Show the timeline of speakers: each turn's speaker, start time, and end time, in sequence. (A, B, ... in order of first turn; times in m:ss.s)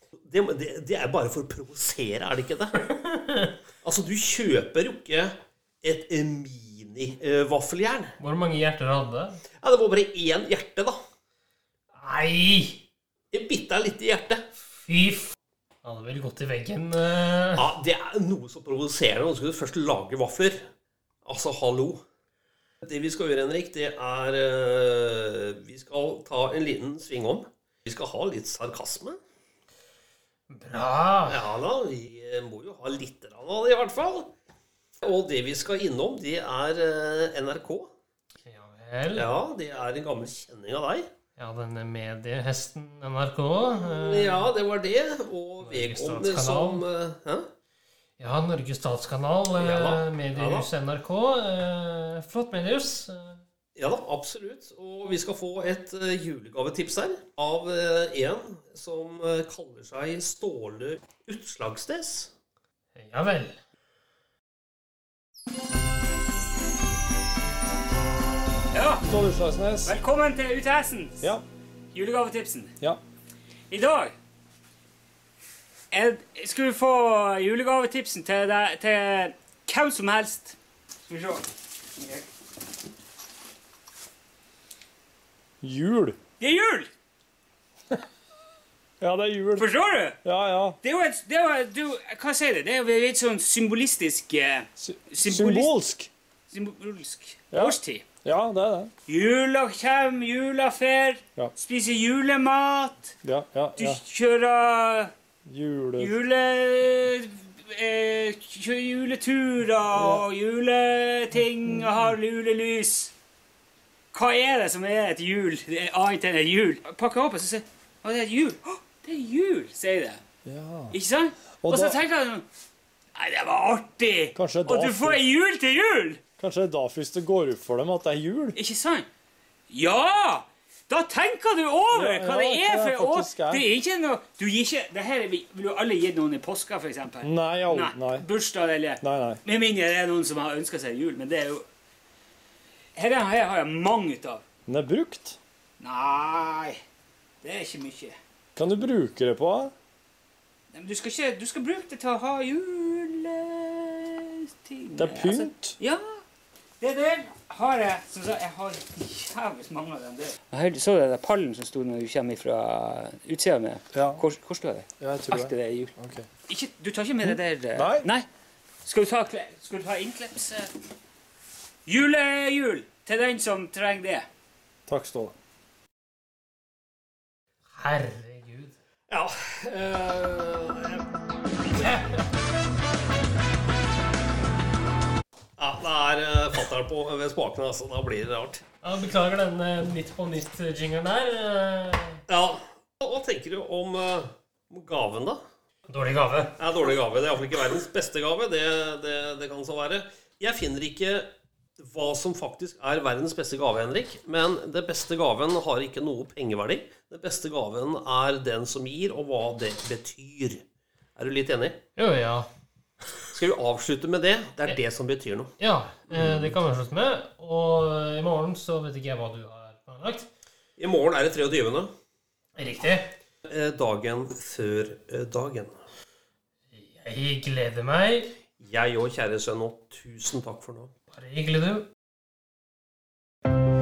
0:00.2-0:02.7 A
0:03.0-0:03.5 B
0:03.8-0:08.1 A
0:08.2-0:09.4 B
0:09.6-0:11.0 A
0:11.9-0:12.8 B
0:13.3-0:14.4 A
0:14.8-0:17.6 B
0:17.6-0:20.6 A
0:21.2-0:22.0 A
0:22.8-0:29.2 A
0:30.5-0:31.5 B
0:31.2-0:34.3 A
0:35.0-0:37.9 A
0:38.4-0:39.3 B
0:39.1-0:41.1 A
0:41.4-0:44.5 B
0:43.7-0:47.5 A
0:45.6-0:46.8 B
0:48.2-0:53.4 B
0:49.6-0:50.7 A
0:53.8-1:02.3 A
1:02.9-1:03.6 B
1:08.7-1:09.0 C
1:09.0-1:10.0 D
1:09.8-1:11.3 C
1:11.9-1:12.7 C
1:13.7-1:14.1 C
1:15.9-1:22.2 C
1:25.6-1:26.2 D
1:26.4-1:26.9 C
1:29.0-1:29.7 D
1:29.6-1:30.2 C
1:30.2-1:30.8 D
1:30.8-1:35.7 C
1:34.8-1:36.1 D
1:36.5-1:38.0 C
1:37.5-1:38.9 D
1:39.0-1:43.1 C
1:43.2-1:44.0 D
1:43.8-1:45.1 C
1:45.4-1:46.2 D
1:46.0-1:53.1 C
1:49.9-1:50.2 D
1:51.7-1:52.0 D
1:54.1-2:00.2 C
2:00.4-2:01.0 D
2:00.9-2:02.4 C
2:01.6-2:02.0 D
2:03.1-2:06.2 C
2:04.4-2:05.2 D
2:06.4-2:08.6 D
2:08.5-2:09.0 C
2:09.7-2:21.6 C
2:11.9-2:13.6 D
2:17.2-2:18.2 D
2:19.0-2:19.4 D
2:22.9-2:24.4 C
2:24.7-2:25.4 D
2:25.8-2:26.8 C
2:27.4-2:28.2 C
2:28.6-2:29.7 D
2:30.7-2:36.2 C
2:35.0-2:35.8 D
2:36.8-2:45.9 C
2:43.9-2:44.2 D
2:45.0-2:46.3 D
2:46.5-2:48.3 C
2:47.2-2:48.1 D
2:48.8-2:50.7 C
2:51.8-2:54.3 C
2:54.9-2:55.3 D
2:57.7-2:58.7 B
2:59.1-3:01.0 A
3:05.6-3:08.6 A
3:08.8-3:12.2 B
3:12.3-3:15.4 A
3:15.9-3:16.6 B
3:16.6-3:21.3 A
3:21.8-3:30.6 A
3:31.2-3:31.8 A
3:32.0-3:32.5 B
3:33.3-3:35.5 A
3:35.6-3:40.3 B
3:36.1-3:36.5 A
3:40.8-3:41.9 A
3:42.6-3:43.1 B
3:43.4-3:45.7 A
3:46.7-3:48.3 B
3:48.6-3:50.9 A
3:51.1-3:51.8 B